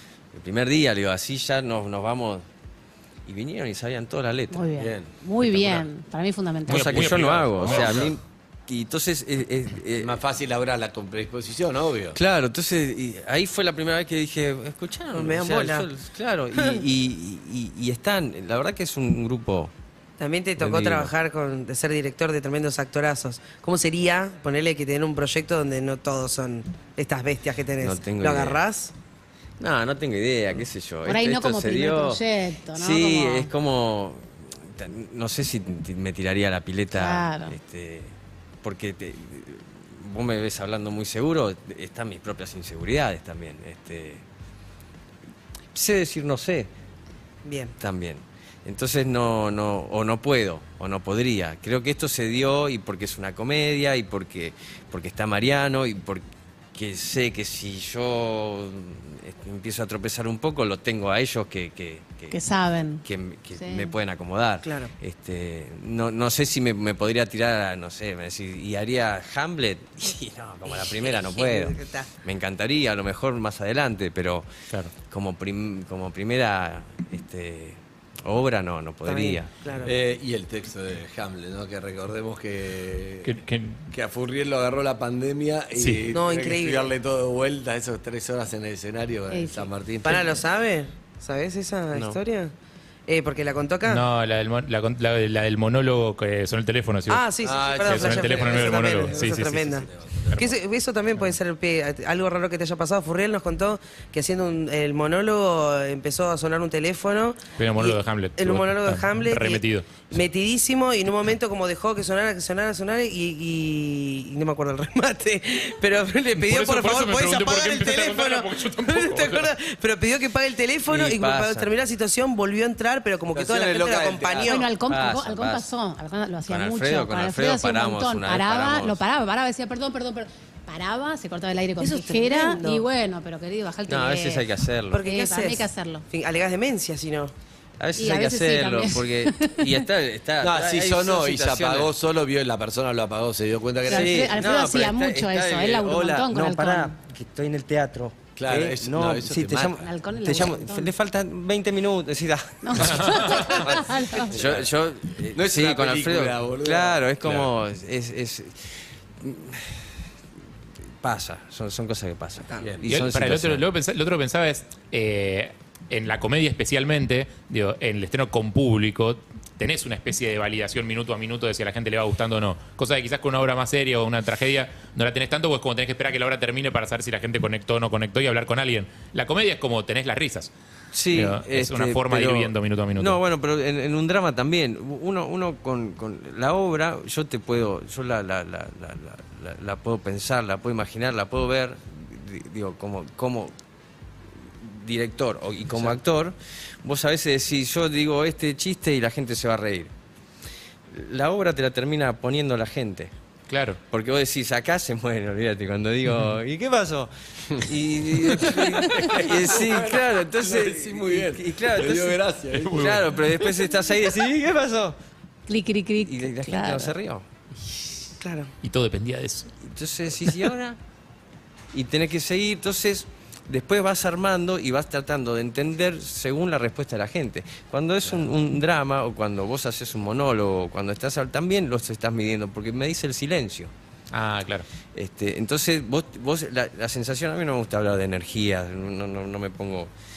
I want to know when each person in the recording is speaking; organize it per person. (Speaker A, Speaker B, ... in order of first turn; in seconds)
Speaker A: 0.3-2.4, 3.3-4.7, 6.7-10.2, 12.2-19.7, 20.6-21.1, 27.8-28.6, 29.6-32.2, 32.8-44.2, 45.7-46.7, 47.8-62.4, 63.0-74.5, 75.1-79.5, 91.9-92.2, 120.9-121.7, 124.9-125.7, 126.5-129.0, 133.9-135.0, 137.8-141.9, 143.9-159.9, 161.0-163.7, 180.9-193.5, 194.6-199.9, 200.9-203.1, 203.9-215.0, 216.0-217.2, 219.6-220.8, 221.7-233.7, 234.9-239.9
Speaker B: 4.5-7.1, 31.1-33.5, 36.9-37.6, 62.3-63.0, 63.5-63.9, 89.3-89.7, 124.4-134.5, 135.0-136.0, 138.0-139.8, 143.9-147.0, 149.8-150.9, 152.6-154.4, 215.5-216.9
Speaker C: 4.8-5.1, 10.0-12.2, 79.8-90.4, 97.4-100.5, 123.3-124.6, 140.4-144.4, 148.4-149.8, 154.3-154.7, 155.3-157.5, 162.6-162.9, 208.1-212.9
Speaker D: 5.4-5.9, 6.7-8.2, 83.2-83.9, 85.8-86.1, 93.9-97.3, 97.8-100.5, 107.6-109.9, 116.3-119.5, 153.0-153.5, 162.9-180.5, 181.1-183.2, 203.5-203.8, 206.1-206.4, 212.6-213.1, 218.6-219.5, 234.1-234.7
Speaker E: 15.2-15.9, 20.2-28.9, 47.5-47.7, 64.6-64.9, 70.7-72.1, 79.0-79.9, 86.1-86.9, 90.0-92.5, 93.1-94.1, 97.1-124.7, 131.8-132.9, 134.9-137.3, 218.2-218.5